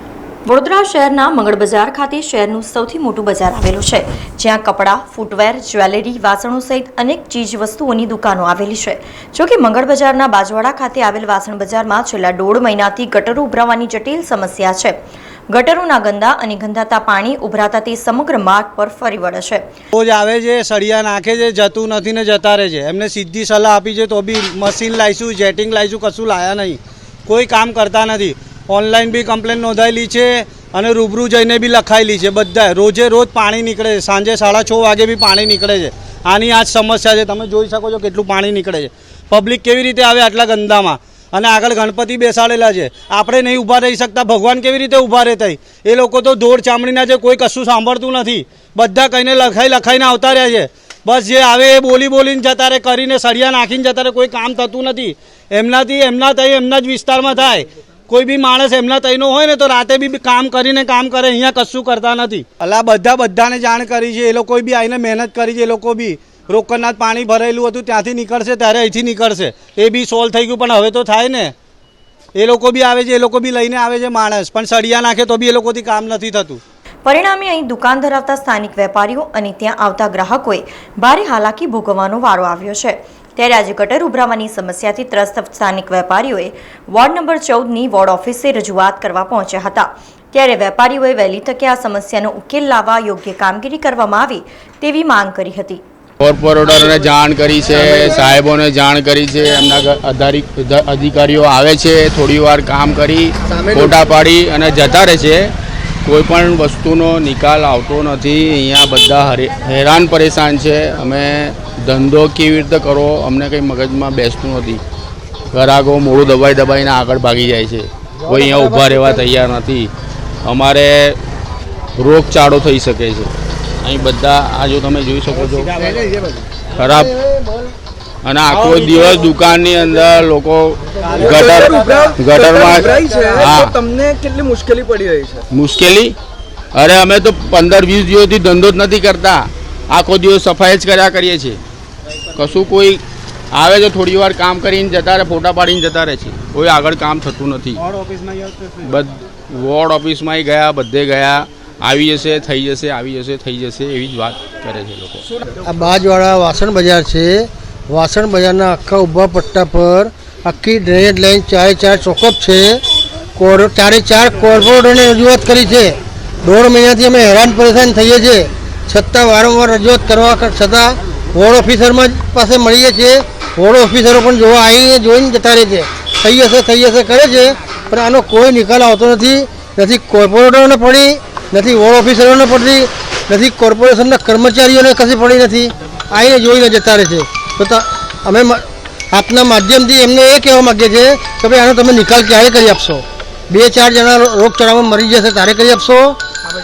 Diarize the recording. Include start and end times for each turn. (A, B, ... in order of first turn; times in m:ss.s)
0:00.4-0:15.0 A
0:15.5-0:19.6 A
0:19.9-1:11.5 B
1:12.4-1:16.6 B
1:17.0-1:35.8 A
1:36.2-1:45.5 C
1:46.0-1:54.8 C
1:55.5-1:59.9 C
1:58.2-1:59.2 D
2:00.4-2:01.2 C
2:02.0-2:03.3 C
2:03.8-2:05.8 C
2:06.7-2:07.1 C
2:07.2-2:07.7 D
2:08.2-2:13.8 C
2:08.6-2:09.3 E
2:11.0-2:12.1 B
2:11.1-2:15.4 E
2:15.5-2:16.1 C
2:16.7-2:21.6 C
2:22.3-2:23.0 C
2:23.5-2:27.8 C
2:27.9-2:28.8 B
2:28.8-2:35.2 C
2:35.6-2:42.8 D
2:43.4-3:16.2 D